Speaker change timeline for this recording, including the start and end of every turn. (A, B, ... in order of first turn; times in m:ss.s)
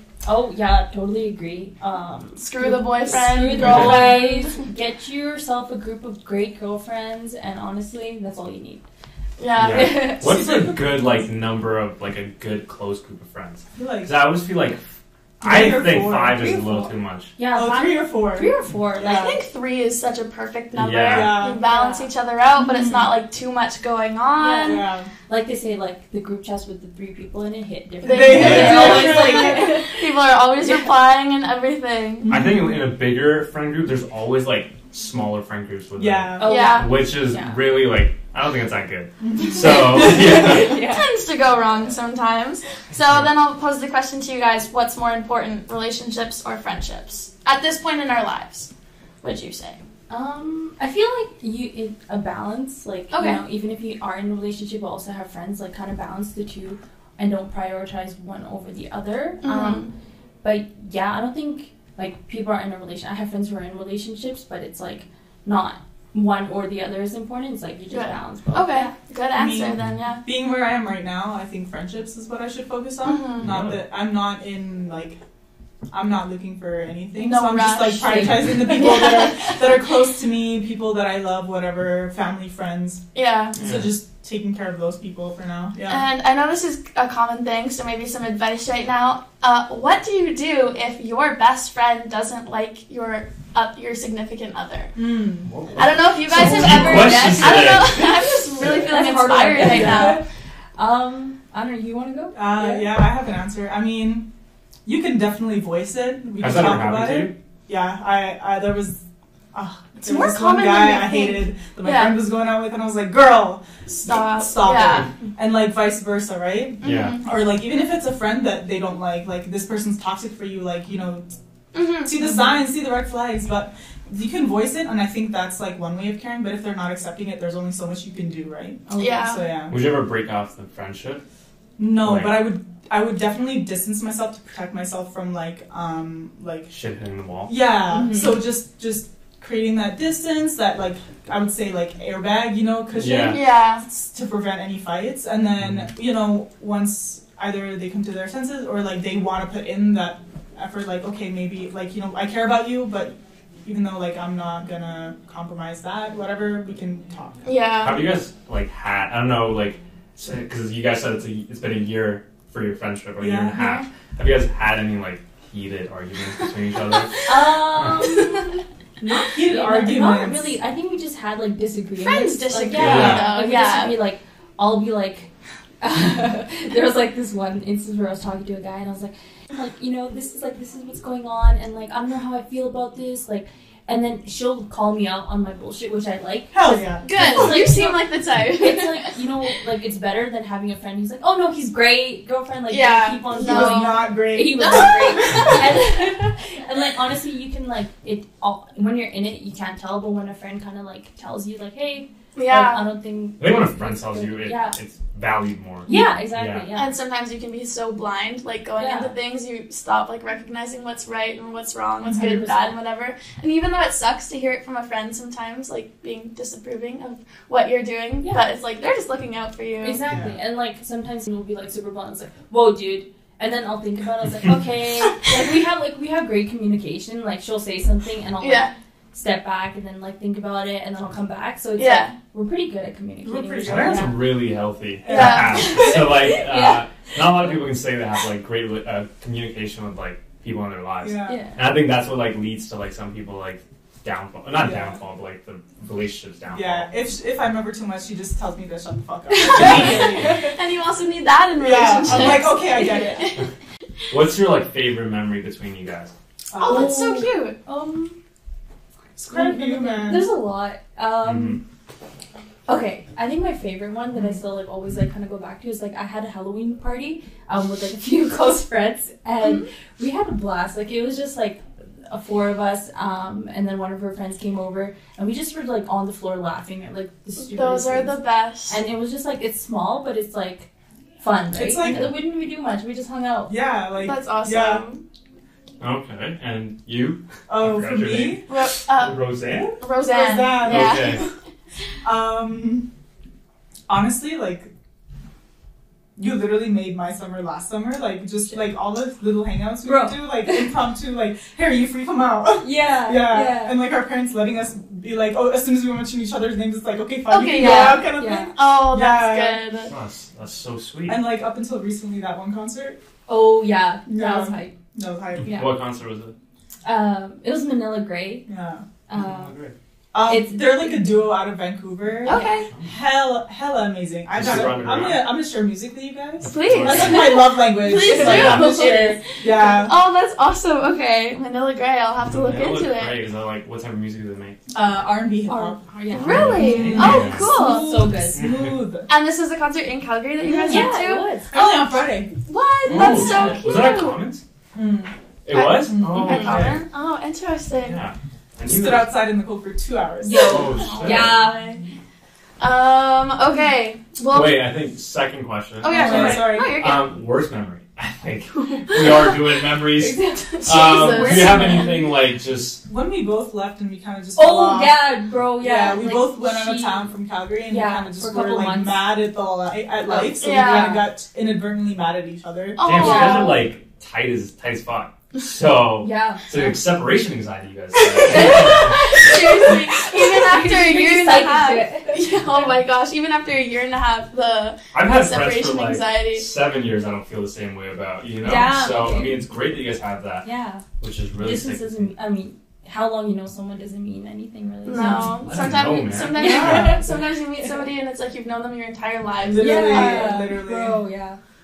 0:00.2-0:08.8 A
0:02.4-0:04.6 B
0:03.5-0:04.2 C
0:09.4-0:10.2 B
0:09.6-0:17.4 C
0:09.7-0:10.3 A
0:10.2-0:11.2 D
0:13.8-0:14.1 D
0:15.4-0:16.9 D
0:17.4-0:19.3 A
0:17.5-0:19.4 D
0:19.0-0:24.9 B
0:20.8-0:21.4 C
0:21.1-0:21.6 D
0:21.5-0:22.1 A
0:22.6-0:23.1 D
0:24.4-0:30.9 A
0:24.6-0:25.1 D
0:28.0-0:32.3 B
0:28.0-0:29.7 D
0:28.3-0:29.1 C
0:32.2-0:32.8 D
0:32.3-0:40.8 C
0:36.0-0:36.5 D
0:36.4-0:37.7 A
0:36.4-0:37.0 B
0:39.2-0:40.3 D
0:40.0-0:41.1 A
0:40.0-0:48.7 B
0:49.2-0:49.8 B
0:50.1-0:59.9 A
0:53.1-0:53.4 B
0:59.4-0:59.9 B
1:00.4-1:08.9 A
1:07.9-1:10.2 B
1:09.4-1:15.2 D
1:13.0-1:13.5 B
1:13.4-1:13.8 C
1:15.9-1:23.0 D
1:17.2-1:19.8 B
1:18.0-1:18.8 A
1:23.1-1:23.6 B
1:23.6-1:26.1 D
1:23.6-1:23.9 C
1:25.8-1:34.9 B
1:35.0-1:35.5 D
1:35.5-1:38.0 C
1:35.8-1:40.2 B
1:36.3-1:40.2 A
1:39.6-1:40.1 D
1:40.8-1:42.9 A
1:42.3-1:44.3 D
1:44.8-1:49.0 D
1:46.4-1:47.3 C
1:49.5-2:01.2 D
1:50.0-1:52.2 B
1:54.0-1:55.1 B
1:54.8-1:55.1 C
1:56.8-1:57.3 B
1:56.8-1:57.2 C
2:01.7-2:02.5 B
2:02.0-2:09.8 D
2:08.9-2:09.4 A
2:09.0-2:09.5 B
2:09.7-2:11.2 C
2:11.8-2:16.7 D
2:12.0-2:12.5 C
2:16.7-2:17.6 C
2:17.5-2:37.4 D
2:17.9-2:18.4 A
2:22.9-2:23.4 C
2:23.2-2:23.9 B
2:25.6-2:25.9 C
2:37.4-2:38.2 B
2:37.8-2:47.2 C
2:43.2-2:43.6 D
2:47.3-2:55.3 A
2:49.3-2:50.6 D
2:52.0-2:54.1 B
2:52.7-2:53.3 C
2:55.8-3:24.8 A
3:06.5-3:07.1 D
3:07.0-3:09.1 B
3:12.7-3:15.5 B
3:13.3-3:15.5 D
3:22.4-3:22.8 B
3:23.4-3:26.7 C
3:25.8-3:26.9 A
3:26.8-3:40.1 B
3:28.8-3:29.1 A
3:32.0-3:32.6 D
3:32.1-3:32.7 A
3:38.2-3:38.5 A
3:39.8-3:54.3 A
3:40.0-3:40.3 D
3:48.4-3:48.7 B
3:51.8-3:52.2 B
3:53.2-3:54.2 D
3:53.6-4:06.9 C
3:55.0-3:56.1 D
3:55.1-3:56.0 B
3:55.5-3:57.1 A
4:01.0-4:01.4 D
4:01.3-4:01.6 A
4:04.6-4:05.0 D
4:06.5-4:10.4 D
4:09.3-4:10.5 A
4:09.6-4:10.2 C
4:10.4-4:13.5 B
4:11.6-4:13.2 D
4:12.1-4:12.3 C
4:12.6-4:13.2 A
4:14.1-4:16.1 C
4:16.5-4:18.2 A
4:16.6-4:17.6 B
4:19.2-4:20.4 D
4:19.3-4:21.6 A
4:21.2-4:21.6 C
4:22.7-4:40.7 A
4:29.4-4:29.7 B
4:37.4-4:38.8 B
4:41.2-4:43.6 A
4:41.5-4:42.2 D
4:43.5-4:44.8 D
4:44.0-4:45.0 B
4:45.8-4:49.8 C
4:47.5-4:48.5 D
4:48.5-4:51.3 B
4:50.0-4:51.2 D
4:50.6-4:51.2 C
4:52.0-4:52.9 D
4:53.9-4:54.7 D
4:56.2-5:09.7 D
4:59.8-5:00.8 A
5:02.6-5:03.9 A
5:07.3-5:09.9 B
5:07.6-5:08.5 A
5:09.9-5:11.2 C
5:11.1-5:13.0 D
5:13.3-5:14.8 A
5:14.1-5:15.6 D
5:15.4-5:15.8 A
5:15.4-5:16.3 C
5:16.8-5:18.5 A
5:18.4-5:18.8 D
5:19.1-5:19.5 A
5:19.1-5:19.8 C
5:20.1-5:30.0 D
5:20.2-5:21.2 A
5:22.2-5:22.7 B
5:22.3-5:22.6 A
5:22.7-5:22.9 C
5:24.3-5:25.3 C
5:26.4-5:27.5 C
5:26.4-5:33.3 B
5:28.0-5:29.2 A
5:28.2-5:28.8 C
5:32.2-5:34.6 C
5:34.7-5:35.8 D
5:35.5-5:38.5 A
5:36.1-5:38.0 B
5:36.2-5:37.5 C
5:36.5-5:39.1 D
5:38.4-5:38.8 C
5:39.1-5:41.6 B
5:40.5-5:40.9 D
5:40.5-5:41.5 A
5:41.5-5:42.3 D
5:42.4-5:44.2 B
5:42.8-5:44.4 C
5:44.7-5:45.1 D
5:45.5-5:46.8 C
5:45.5-5:48.0 B
5:45.9-5:46.8 D
5:47.8-5:49.2 C
5:48.6-5:50.8 D
5:50.2-5:51.8 A
5:50.3-5:51.8 B
5:50.4-5:51.5 C
5:52.6-5:54.7 B
5:54.3-6:02.8 C
5:55.8-5:57.2 B
5:55.9-5:56.8 D
5:56.0-5:56.4 A
5:58.8-5:59.4 B
5:59.9-6:01.9 A
6:00.6-6:02.0 B
6:00.9-6:01.9 D
6:02.8-6:13.0 D
6:04.4-6:07.1 A
6:07.6-6:09.2 A
6:10.0-6:11.1 A
6:10.4-6:11.0 B
6:12.8-6:13.7 B
6:12.8-6:19.2 C
6:16.0-6:16.5 A
6:18.2-6:26.5 B
6:18.7-6:22.3 A
6:24.9-6:30.5 C
6:28.4-6:29.5 A
6:30.4-6:30.9 A
6:31.0-6:32.1 C
6:31.4-6:35.5 A
6:34.8-6:40.4 B
6:35.3-6:37.0 C
6:36.3-6:37.8 A
6:36.3-6:37.0 D
6:39.5-6:41.0 D
6:39.6-6:41.4 A